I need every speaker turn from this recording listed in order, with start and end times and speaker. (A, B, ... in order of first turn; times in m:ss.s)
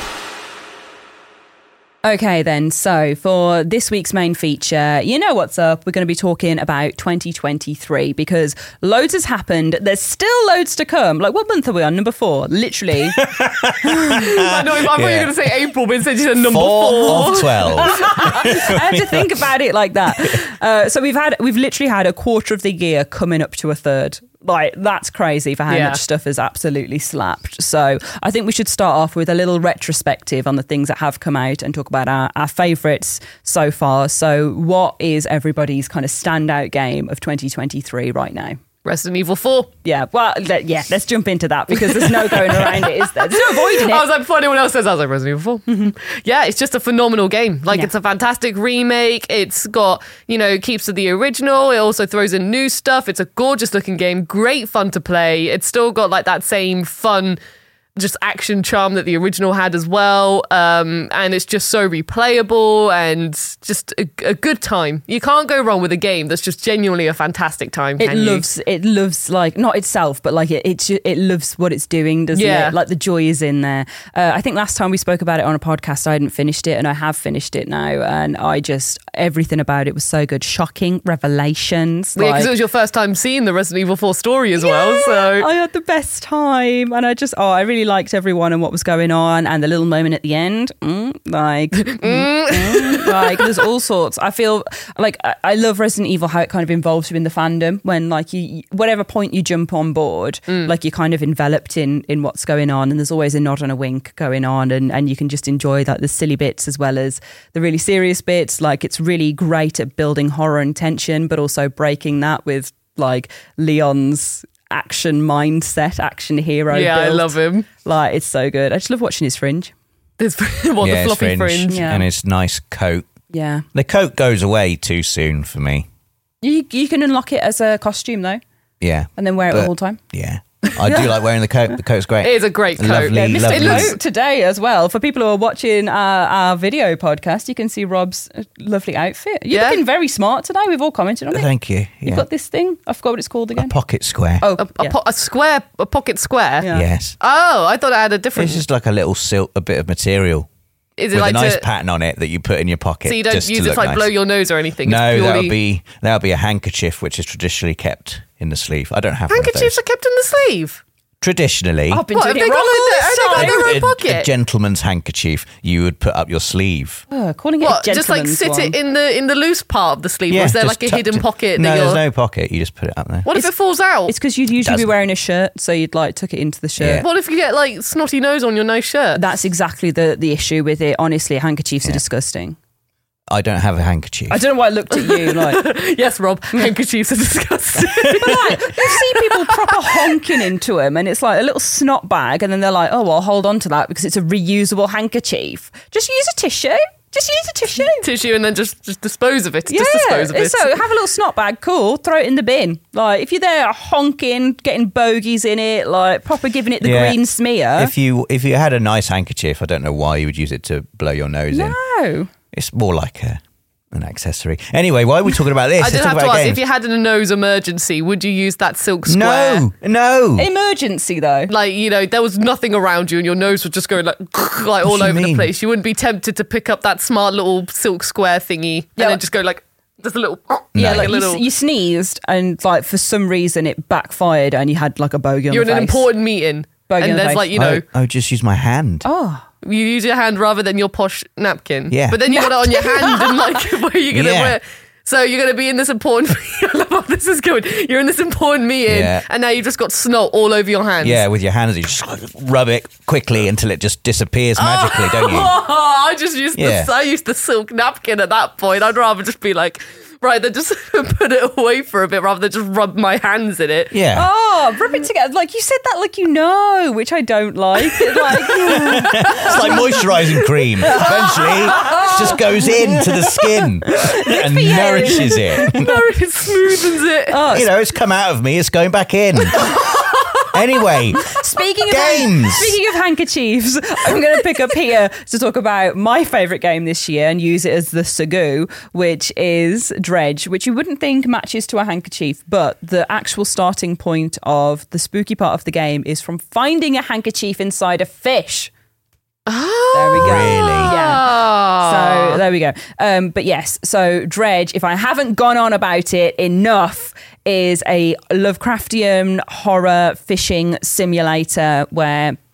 0:02.0-0:13.2 A
0:13.2-0:15.4 B
0:13.8-0:14.2 A
0:14.1-0:18.5 C
0:16.4-0:19.4 B
0:17.1-0:38.6 A
0:25.7-0:26.0 C
0:38.8-0:39.7 C
0:39.8-0:44.1 A
0:41.7-0:57.4 C
0:45.7-0:45.9 A
0:58.0-1:08.4 C
1:08.0-1:22.5 A
1:12.3-1:12.8 C
1:22.2-1:25.5 C
1:24.6-1:59.7 A
1:31.8-1:33.6 C
1:56.7-1:57.7 C
2:00.2-2:01.8 C
2:00.8-2:03.1 B
2:01.7-2:02.1 A
2:03.3-2:03.6 A
2:03.7-2:05.9 B
2:06.4-2:08.4 A
2:08.8-2:14.0 B
2:09.2-2:10.0 A
2:10.7-2:11.1 A
2:12.2-2:14.0 C
2:13.1-2:21.5 A
2:19.5-2:19.8 C
2:21.3-2:22.3 B
2:22.0-2:23.7 A
2:23.6-2:24.4 B
2:24.4-2:25.0 A
2:24.6-2:26.7 C
2:26.6-2:26.9 A
2:26.7-2:27.2 B
2:27.2-2:28.6 C
2:28.4-2:30.5 B
2:31.0-2:31.6 C
2:31.1-2:34.1 B
2:33.1-2:35.6 C
2:34.8-2:39.8 B
2:39.3-2:40.8 C
2:41.2-2:42.1 B
2:41.9-2:43.8 A
2:42.1-2:44.3 C
2:43.3-2:47.0 B
2:47.1-2:48.8 A
2:47.6-2:52.0 C
2:50.3-2:53.3 B
2:53.3-2:54.1 C
2:54.1-2:57.1 A
2:54.6-2:54.9 B
2:56.8-2:57.0 B
2:57.0-2:59.2 C
2:59.2-3:02.6 A
3:03.3-3:04.4 B
3:04.3-3:05.6 A
3:04.9-3:10.2 C
3:08.1-3:18.1 A
3:18.0-3:20.8 C
3:19.7-3:27.9 A
3:26.8-3:27.2 B
3:27.8-3:31.8 B
3:31.5-3:32.3 A
3:32.5-3:33.4 B
3:33.9-3:36.6 B
3:35.8-3:39.6 C
3:39.1-3:40.5 B
3:40.4-3:41.5 A
3:41.5-3:51.4 C
3:44.8-3:45.5 B
3:50.8-3:51.1 B
3:50.8-3:56.1 A
3:55.5-3:57.8 C
3:56.9-3:57.5 A
3:57.5-3:59.1 B
3:59.0-3:59.5 A
3:59.6-4:11.2 C
4:01.9-4:02.3 B
4:02.3-4:03.4 A
4:04.1-4:04.6 B
4:08.9-4:09.2 B
4:11.0-4:15.6 B
4:14.6-4:23.9 C
4:16.6-4:16.9 B
4:23.9-4:24.3 B
4:24.1-4:30.1 A
4:28.6-4:36.0 B
4:29.3-4:29.8 C
4:30.8-4:35.8 A
4:31.0-4:32.2 C
4:35.6-4:37.4 C
4:37.3-4:37.7 A
4:37.5-4:39.8 B
4:39.6-4:40.3 C
4:40.5-4:41.4 B
4:41.2-4:58.7 A
4:41.9-4:42.8 B
4:59.5-5:02.4 C
4:59.9-5:12.4 A
5:00.2-5:01.0 B